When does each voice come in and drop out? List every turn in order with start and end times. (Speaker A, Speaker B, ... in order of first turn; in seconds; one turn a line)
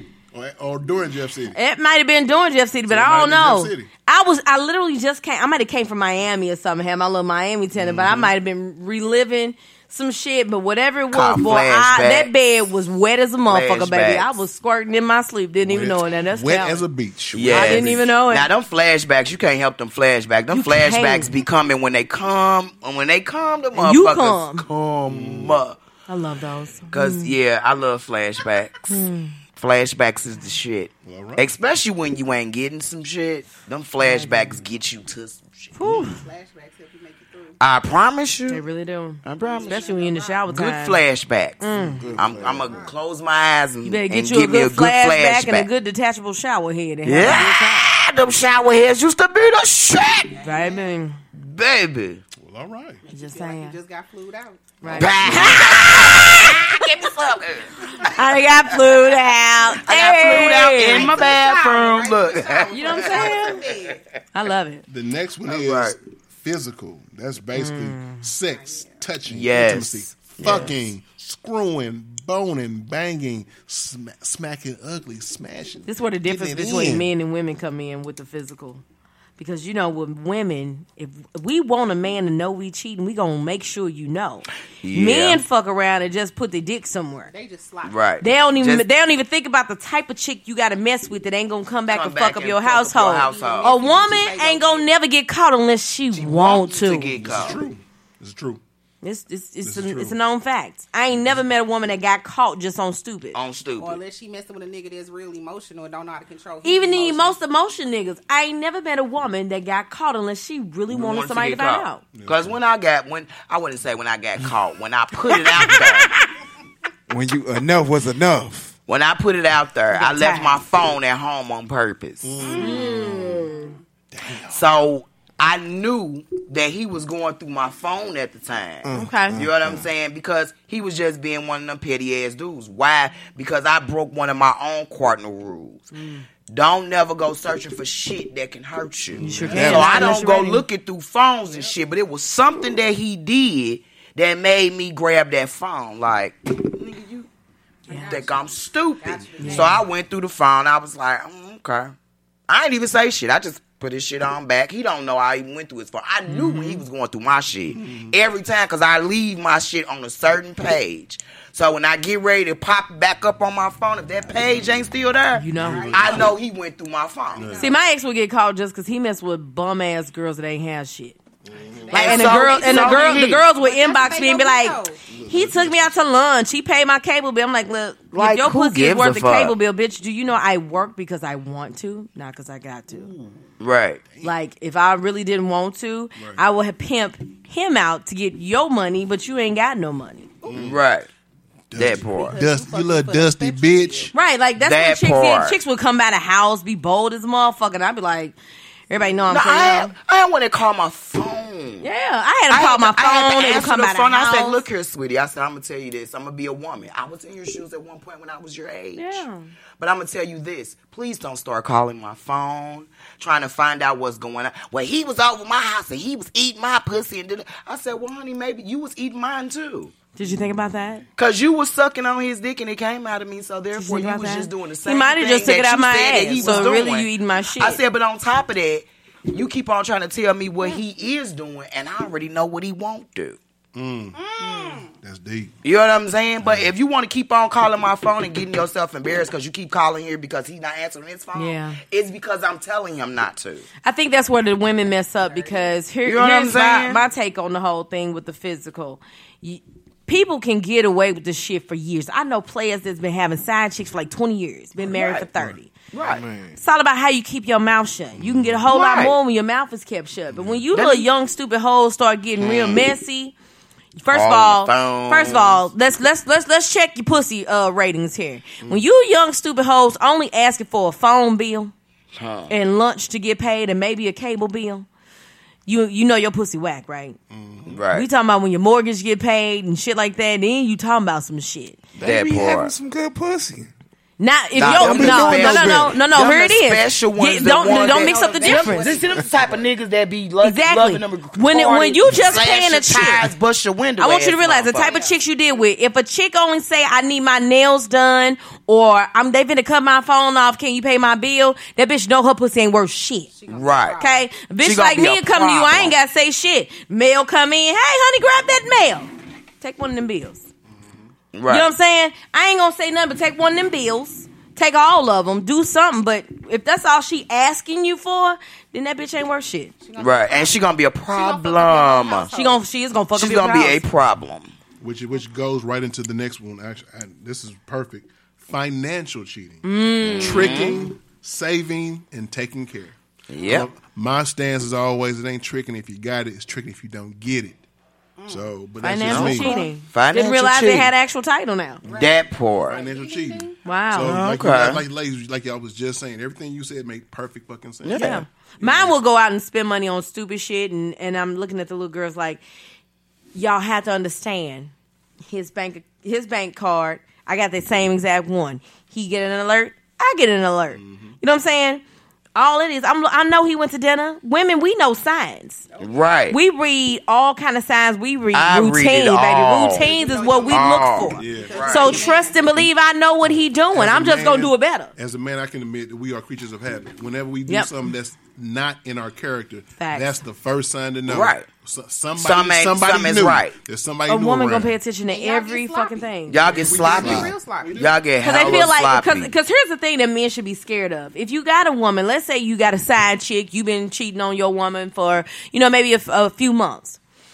Speaker A: 0.3-1.6
Speaker B: 1.5-16.8
Speaker A: 2.9-3.9
Speaker A: 7.8-8.3
Speaker C: 11.1-12.3
Speaker C: 13.5-14.4
Speaker A: 15.6-18.1
Speaker C: 17.3-25.8
Speaker B: 17.5-18.5
Speaker B: 20.5-21.3
Speaker B: 23.8-24.6
Speaker A: 25.1-25.6
Speaker B: 26.1-27.3
Speaker C: 26.9-29.0
Speaker B: 28.9-29.4
Speaker C: 29.6-35.7
Speaker A: 31.0-31.4
Speaker B: 34.0-34.6
Speaker B: 35.7-36.2
Speaker D: 36.0-37.6
Speaker C: 37.6-38.6
Speaker B: 38.5-41.0
Speaker C: 39.2-39.9
Speaker D: 39.4-40.4
Speaker C: 40.5-41.6
Speaker B: 41.6-42.0
Speaker E: 42.0-42.6
Speaker A: 42.0-42.7
Speaker C: 42.1-45.7
Speaker D: 42.6-42.9
Speaker B: 43.8-47.9
Speaker C: 47.0-50.4
Speaker D: 50.4-50.9
Speaker B: 50.4-51.2
Speaker C: 51.3-52.2
Speaker A: 52.4-53.0
Speaker D: 53.0-56.5
Speaker B: 53.1-53.8
Speaker B: 54.8-56.2
Speaker A: 54.8-55.8
Speaker C: 55.0-57.7
Speaker B: 58.1-61.1
Speaker C: 59.8-63.7
Speaker D: 60.4-64.0
Speaker B: 62.7-63.6
Speaker B: 64.3-64.8
Speaker A: 64.9-77.1
Speaker C: 65.5-66.0
Speaker B: 67.5-68.2
Speaker D: 68.4-69.1
Speaker C: 69.3-70.7
Speaker B: 75.9-78.8
Speaker B: 79.4-87.3
Speaker C: 84.8-85.4
Speaker D: 87.3-88.0
Speaker C: 87.8-88.8
Speaker B: 88.2-97.2
Speaker C: 91.9-94.0
Speaker D: 93.2-94.9
Speaker C: 96.1-97.6
Speaker A: 97.2-98.6
Speaker B: 99.0-103.4
Speaker A: 99.6-100.2
Speaker A: 101.2-101.4
Speaker C: 103.3-104.0
Speaker D: 103.8-107.4
Speaker B: 106.6-112.0
Speaker C: 110.9-116.1
Speaker A: 112.1-112.6
Speaker B: 115.7-116.2
Speaker E: 117.1-118.7
Speaker C: 118.9-122.4
Speaker B: 120.0-120.6
Speaker A: 122.2-123.3
Speaker D: 122.4-123.3
Speaker B: 122.6-123.7
Speaker A: 124.1-124.6
Speaker C: 124.5-135.9
Speaker E: 128.8-129.8
Speaker B: 128.9-129.4
Speaker B: 135.9-136.2
Speaker C: 136.5-147.3
Speaker A: 139.2-140.1
Speaker B: 139.2-140.6
Speaker D: 139.5-140.0
Speaker D: 141.5-141.7
Speaker B: 147.9-148.2
Speaker D: 147.9-149.9
Speaker C: 148.1-151.9
Speaker B: 149.4-149.8
Speaker C: 152.5-167.6
Speaker B: 156.3-156.8
Speaker A: 157.7-158.2
Speaker B: 165.3-165.9
Speaker A: 165.6-166.3
Speaker D: 165.6-166.4
Speaker A: 167.3-167.7
Speaker D: 167.4-167.7
Speaker B: 167.6-171.2
Speaker A: 171.5-171.9
Speaker D: 171.9-175.0
Speaker C: 171.9-173.4
Speaker B: 171.9-183.1
Speaker A: 175.1-176.0
Speaker C: 178.1-179.6
Speaker A: 182.9-183.4
Speaker C: 183.6-184.0
Speaker B: 184.2-190.3
Speaker D: 190.4-190.7
Speaker A: 190.5-190.8
Speaker C: 190.6-191.1
Speaker A: 191.7-194.1
Speaker C: 191.7-192.4
Speaker D: 191.8-194.1
Speaker B: 194.1-198.3
Speaker C: 194.6-195.6
Speaker B: 198.9-199.9
Speaker C: 199.3-201.9
Speaker B: 201.8-204.6
Speaker C: 202.5-209.2
Speaker B: 208.9-209.5
Speaker C: 209.8-219.9
Speaker B: 220.2-221.0
Speaker C: 221.2-233.4
Speaker B: 223.7-227.8
Speaker D: 226.4-226.7
Speaker A: 233.7-235.5
Speaker D: 234.1-234.9
Speaker C: 235.6-243.7
Speaker A: 236.4-236.7
Speaker B: 241.3-241.8
Speaker B: 243.8-255.7
Speaker D: 245.2-245.8
Speaker C: 246.0-247.0
Speaker C: 254.8-255.3
Speaker C: 255.9-256.2
Speaker E: 256.0-256.6
Speaker B: 256.6-263.3
Speaker A: 258.2-258.6
Speaker C: 258.7-259.1
Speaker A: 260.3-260.6
Speaker C: 260.7-261.1
Speaker C: 262.4-262.9
Speaker B: 263.9-271.7
Speaker C: 264.1-265.6
Speaker C: 272.1-272.5
Speaker B: 272.5-274.9
Speaker B: 275.6-277.2
Speaker A: 277.3-277.8
Speaker C: 277.7-278.1
Speaker B: 277.9-281.8
Speaker E: 282.0-283.7
Speaker C: 282.0-282.7
Speaker B: 284.2-288.9
Speaker E: 284.6-286.0
Speaker C: 284.6-295.0
Speaker D: 287.6-289.6
Speaker B: 290.4-293.3
Speaker B: 294.0-303.3
Speaker D: 294.7-295.6
Speaker D: 303.3-304.3
Speaker C: 303.5-304.0
Speaker B: 304.0-310.5
Speaker C: 304.6-305.9
Speaker C: 311.3-311.7
Speaker B: 311.5-319.7
Speaker D: 319.8-322.6
Speaker C: 320.0-322.3
Speaker B: 322.3-323.8
Speaker C: 323.1-324.5
Speaker A: 324.8-337.6
Speaker B: 329.6-330.8
Speaker C: 330.2-330.9
Speaker C: 333.3-333.7
Speaker D: 338.2-338.5
Speaker A: 338.3-339.5
Speaker B: 338.8-341.8
Speaker C: 339.1-340.9
Speaker D: 339.4-339.7
Speaker D: 341.9-343.8
Speaker C: 341.9-342.8
Speaker A: 342.6-348.9
Speaker B: 343.6-344.2
Speaker C: 344.0-344.8
Speaker C: 347.8-348.2
Speaker B: 347.9-352.4
Speaker B: 353.3-361.8
Speaker A: 360.7-361.1
Speaker B: 362.3-365.6
Speaker D: 365.7-366.0
Speaker C: 365.8-366.4
Speaker B: 366.3-374.9
Speaker C: 368.3-369.9
Speaker D: 369.7-372.5
Speaker C: 370.5-372.1
Speaker A: 371.1-371.9
Speaker A: 373.7-384.8
Speaker B: 377.5-377.7
Speaker B: 379.8-380.2
Speaker C: 381.1-381.5
Speaker C: 382.2-383.6
Speaker B: 384.1-386.4
Speaker D: 385.1-387.8
Speaker C: 386.3-389.3
Speaker A: 386.5-388.0
Speaker B: 388.2-397.0